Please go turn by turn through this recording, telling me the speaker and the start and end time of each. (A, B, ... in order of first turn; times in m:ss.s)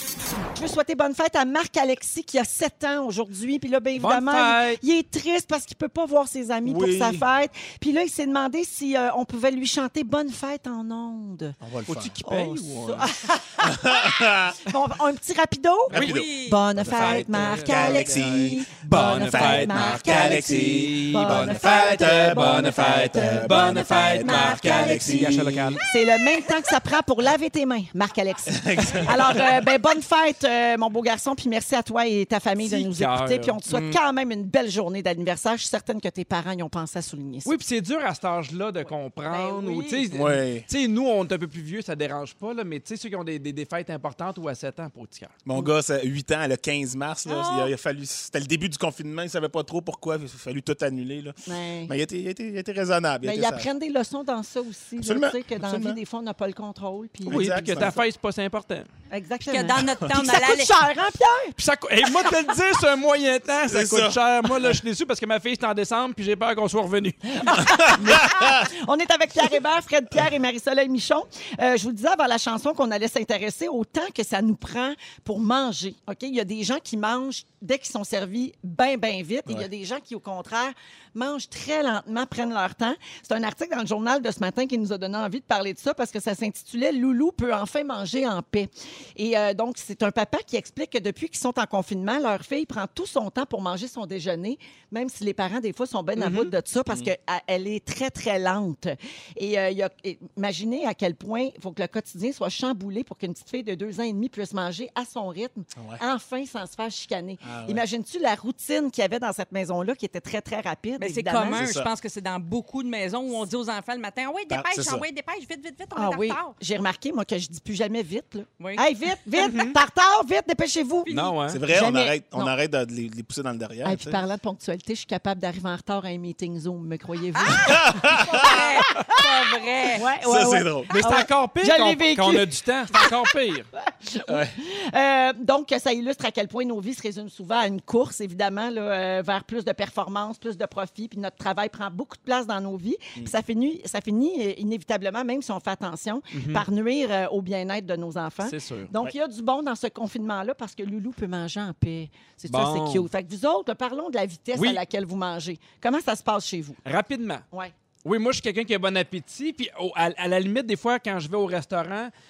0:00.5-0:11.6 A
0:04.0-0:04.8 B
0:06.6-0:07.3 C
0:11.6-0:12.2 C
0:11.9-0:13.1 B
0:12.2-0:37.5 A
0:13.6-0:14.7 C
0:15.9-0:25.8 C
0:15.9-0:16.2 B
0:16.0-0:16.7 D
0:16.8-0:25.8 B
0:28.5-0:29.6 C
0:32.6-0:33.6 B
0:33.7-0:34.0 C
0:37.4-0:45.4 B
0:39.3-0:40.1 A
0:40.1-0:40.7 C
0:45.4-0:53.7 C
0:47.3-0:47.7 D
0:51.5-0:51.9 A
0:53.2-0:57.9 A
0:55.0-0:56.0 C
0:57.3-0:58.0 C
0:57.3-0:58.9 B
0:59.1-1:01.6 A
0:59.4-1:00.8 D
1:01.6-1:07.8 B
1:03.7-1:04.7 C
1:07.5-1:51.6 A
1:07.6-1:08.7 C
1:36.2-1:36.5 B
1:45.8-1:46.0 C
1:47.4-1:47.8 C
1:51.0-1:56.6 D
1:51.4-1:51.9 C
1:54.5-1:55.0 C
1:56.0-2:01.1 A
1:58.6-1:58.8 D
1:59.4-1:59.8 B
2:01.0-2:01.4 D
2:01.1-2:01.6 B
2:01.5-2:04.2 C
2:01.7-2:02.5 A
2:03.8-2:08.7 A
2:07.4-2:10.1 D
2:07.6-2:09.0 C
2:09.9-2:13.1 A
2:10.2-2:10.9 C
2:10.9-2:13.7 B
2:13.8-2:36.8 A
2:14.3-2:14.6 C
2:26.3-2:26.6 B
2:28.4-2:28.9 B
2:32.5-2:33.1 B
2:34.6-2:34.8 B
2:36.8-2:37.4 B
2:38.0-2:42.1 B